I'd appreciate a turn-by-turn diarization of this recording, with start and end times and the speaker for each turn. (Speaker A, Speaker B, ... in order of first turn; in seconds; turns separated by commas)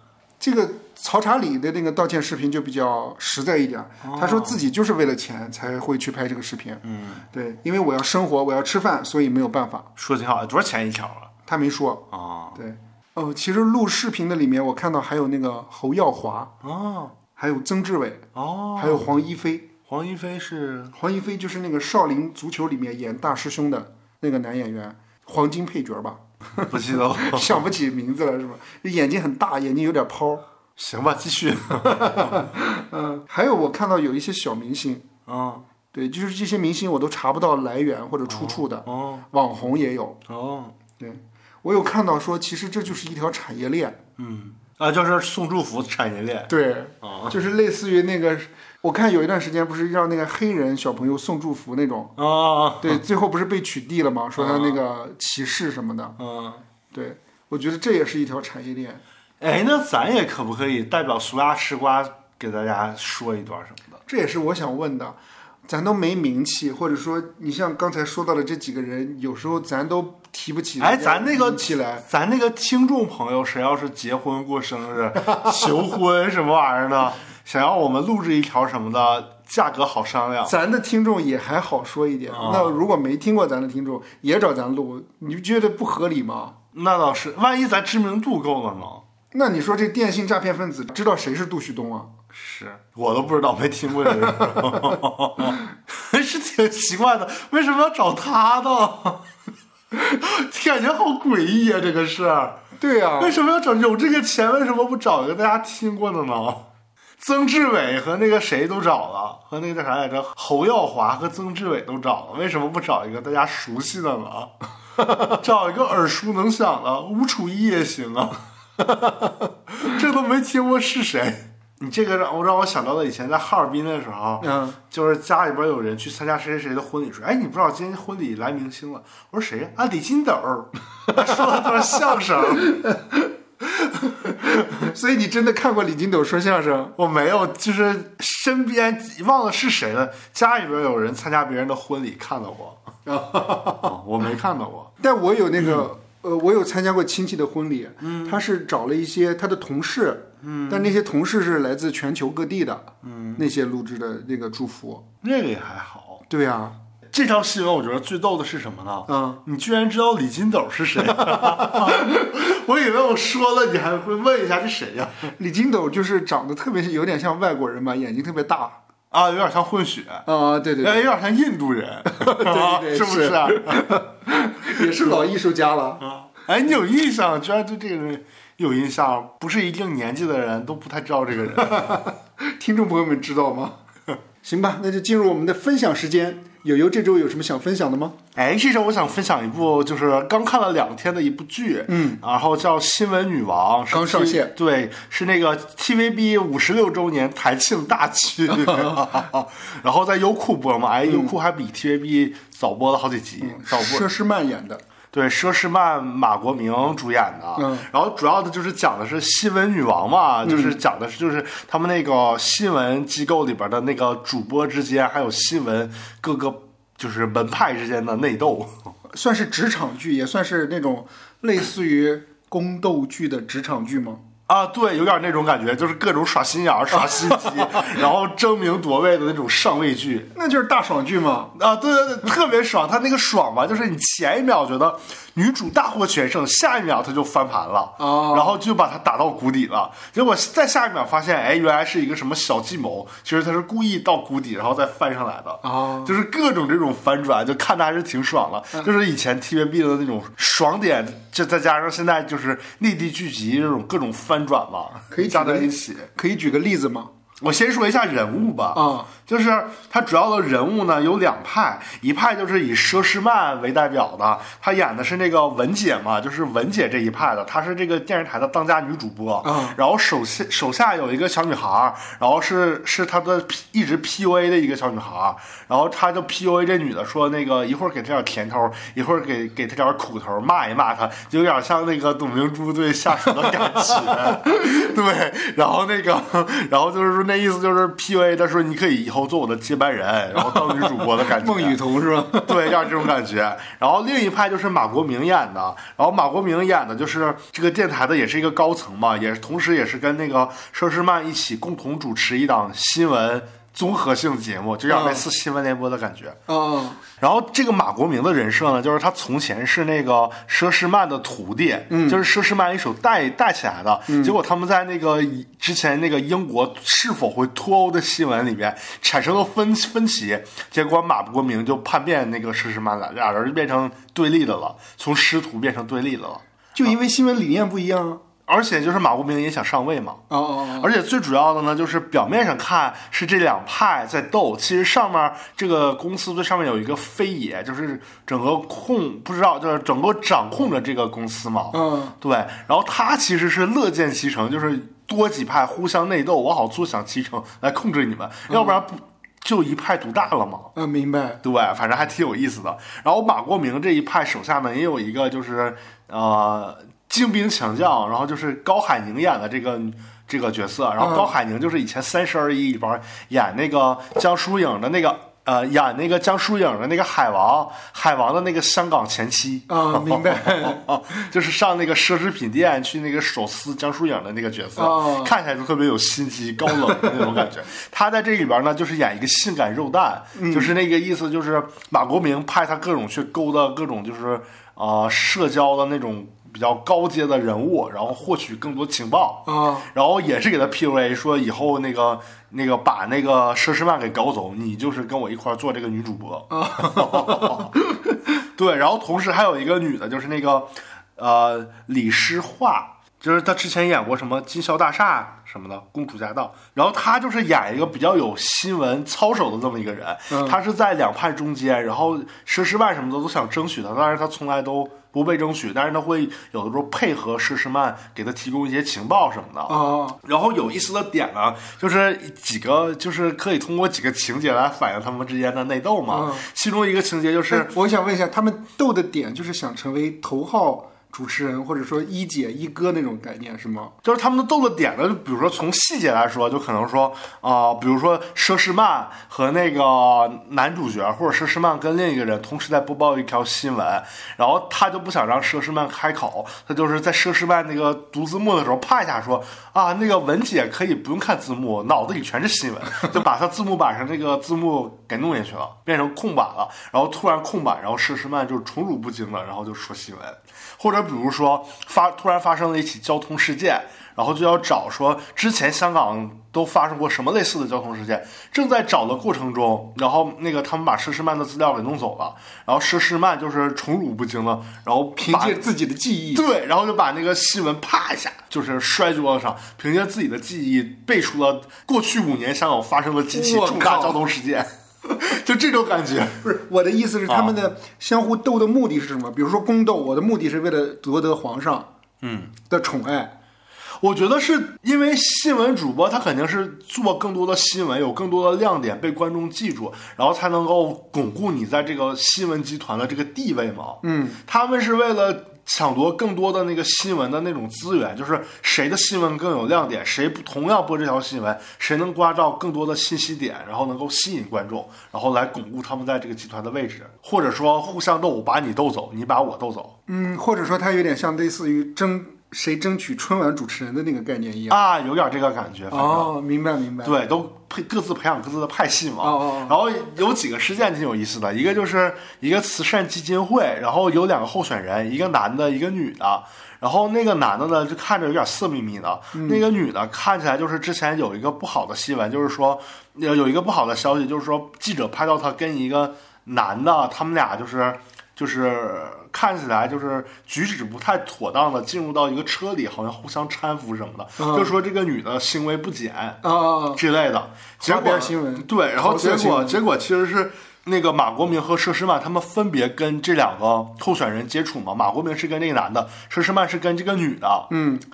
Speaker A: 0.4-9.9, Speaker B: 4.0-4.6, Speaker B: 6.8-7.2, Speaker B: 10.0-11.3, Speaker A: 11.4-16.5, Speaker B: 12.1-12.6, Speaker B: 16.6-17.1, Speaker A: 17.4-19.7, Speaker B: 18.3-19.1, Speaker B: 19.9-20.9, Speaker A: 20.9-30.4, Speaker B: 26.6-27.6, Speaker B: 30.8-32.5, Speaker A: 31.9-35.0, Speaker B: 35.3-35.7, Speaker A: 35.9-40.2, Speaker B: 38.3-39.2, Speaker B: 40.3-40.7, Speaker A: 41.0-44.0, Speaker B: 44.2-46.5, Speaker A: 46.5-52.1, Speaker B: 47.0-47.4, Speaker B: 52.2-53.0, Speaker A: 52.8-56.2, Speaker B: 54.4-54.8, Speaker B: 56.2-56.6, Speaker A: 56.9-59.0, Speaker B: 59.4-64.0, Speaker A: 64.1-72.0, Speaker B: 70.8-80.5, Speaker A: 75.3-75.7, Speaker A: 80.4-86.5, Speaker B: 82.3-82.8, Speaker B: 86.7-89.0, Speaker A: 89.3-92.1, Speaker B: 92.3-99.2, Speaker A: 94.1-95.0, Speaker B: 99.9-102.7, Speaker A: 102.8-103.4, Speaker B: 103.2-106.7, Speaker B: 107.2-114.5, Speaker B: 115.0-132.8, Speaker A: 124.4-124.8, Speaker A: 131.2-136.9, Speaker B: 137.0-142.8, Speaker A: 143.1-143.9, Speaker B: 143.7-144.9, Speaker A: 145.0-155.1, Speaker B: 148.0-148.4, Speaker B: 150.4-150.9, Speaker B: 153.0-153.4, Speaker B: 155.2-156.2, Speaker A: 156.3-156.8, Speaker B: 157.1-165.3, Speaker A: 159.1-159.4, Speaker A: 161.1-162.2, Speaker A: 165.4-168.8, Speaker B: 169.1-170.2, Speaker A: 170.2-171.1, Speaker B: 170.8-174.0, Speaker A: 172.1-176.0, Speaker B: 176.0-182.0, Speaker A: 181.7-183.8, Speaker A: 184.4-188.2, Speaker B: 188.3-204.1, Speaker A: 191.9-192.2, Speaker A: 193.9-194.5, Speaker A: 198.7-199.0, Speaker A: 201.0-201.3, Speaker A: 203.4-204.8, Speaker B: 205.1-218.9, Speaker A: 207.6-207.9, Speaker A: 210.4-210.8, Speaker A: 219.1-224.2, Speaker B: 224.5-230.3, Speaker A: 226.9-227.9, Speaker A: 230.3-231.5, Speaker B: 231.5-256.1, Speaker A: 238.0-238.6, Speaker A: 245.6-246.1, Speaker A: 255.1-257.1, Speaker B: 257.4-291.8, Speaker A: 258.7-259.1, Speaker A: 269.4-269.8, Speaker A: 284.0-284.6, Speaker A: 290.4-292.9, Speaker B: 292.3-306.4, Speaker A: 304.9-305.2, Speaker A: 306.5-307.0, Speaker B: 307.2-326.4, Speaker A: 311.9-312.2, Speaker A: 314.1-314.4, Speaker A: 326.7-328.2, Speaker B: 328.5-350.7, Speaker A: 330.3-330.9, Speaker A: 341.7-342.1, Speaker A: 348.5-348.8, Speaker A: 350.7-351.4, Speaker B: 351.4-397.8, Speaker A: 361.0-361.3, Speaker A: 369.7-370.8, Speaker A: 374.8-375.3, Speaker A: 376.8-377.1, Speaker A: 380.3-380.7, Speaker A: 389.4-389.9, Speaker A: 396.5-398.1, Speaker B: 398.5-427.7, Speaker A: 410.3-410.6, Speaker A: 419.7-420.2, Speaker A: 426.1-426.4, Speaker A: 427.5-433.9, Speaker B: 434.0-475.6, Speaker A: 475.2-476.4, Speaker B: 476.3-486.4, Speaker A: 483.3-484.2, Speaker A: 486.4-491.9, Speaker B: 487.3-487.5, Speaker B: 492.2-492.5, Speaker A: 492.7-493.3, Speaker B: 494.0-519.9, Speaker A: 504.0-504.4, Speaker A: 520.1-524.8, Speaker B: 524.7-526.3, Speaker A: 525.9-527.2, Speaker B: 527.0-567.7, Speaker A: 529.2-529.8, Speaker A: 539.3-539.6, Speaker A: 554.4-554.7, Speaker A: 556.4-557.0, Speaker A: 557.8-559.8, Speaker A: 567.7-568.0